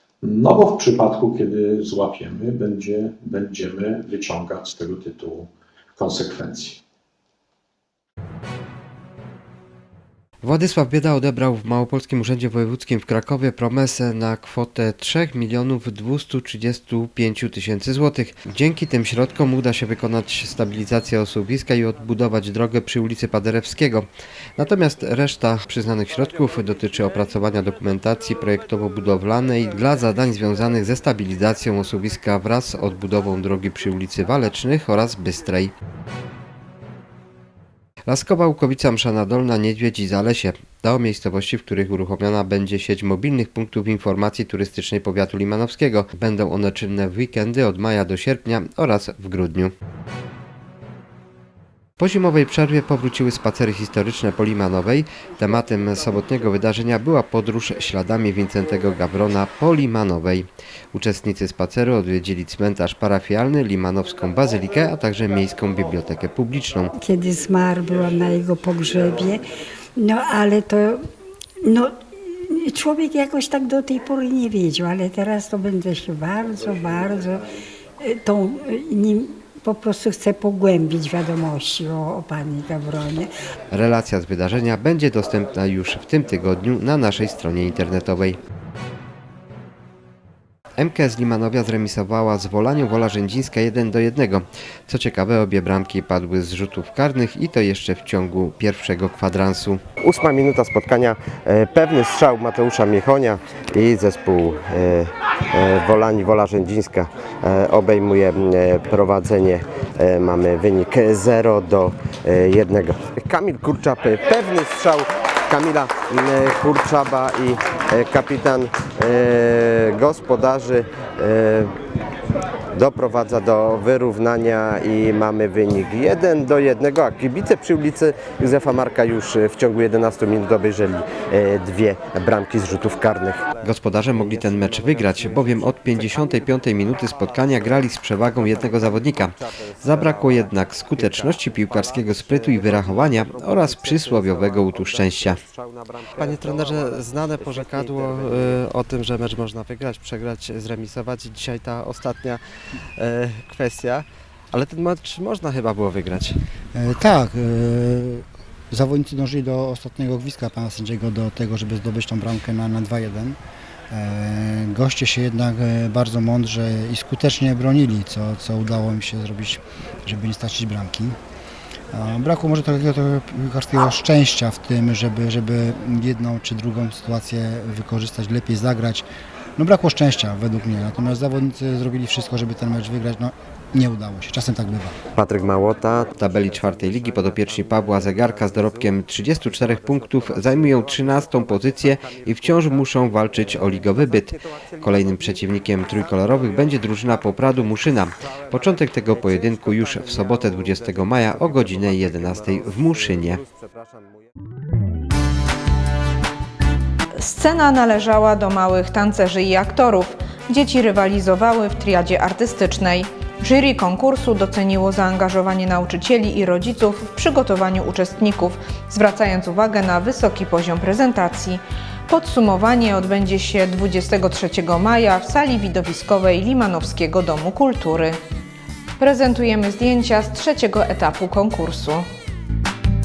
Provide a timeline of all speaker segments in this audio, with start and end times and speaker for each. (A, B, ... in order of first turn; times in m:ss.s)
0:00.2-0:06.8 A
0:10.4-0:35.7 B
0:38.1-0:49.7 B
0:52.0-1:06.9 B
1:07.1-1:09.3 C
1:10.0-1:10.9 C
1:12.7-1:17.3 C
1:18.3-1:23.3 C
1:23.7-1:28.4 B
1:30.8-1:39.8 B
1:40.0-2:01.7 D
2:02.7-2:15.6 D
2:13.6-2:25.4 B
2:21.0-2:25.5 D
2:26.1-2:32.4 D
2:33.0-2:36.4 D
2:36.7-2:43.4 E
2:43.9-2:51.1 E
2:51.9-2:59.0 E
2:59.6-3:04.9 E
3:05.1-3:08.8 D
3:06.2-3:23.4 B
3:09.8-3:11.1 D
3:13.9-3:15.1 D
3:18.5-3:24.1 D
3:27.2-3:48.2 F
3:49.0-3:52.1 F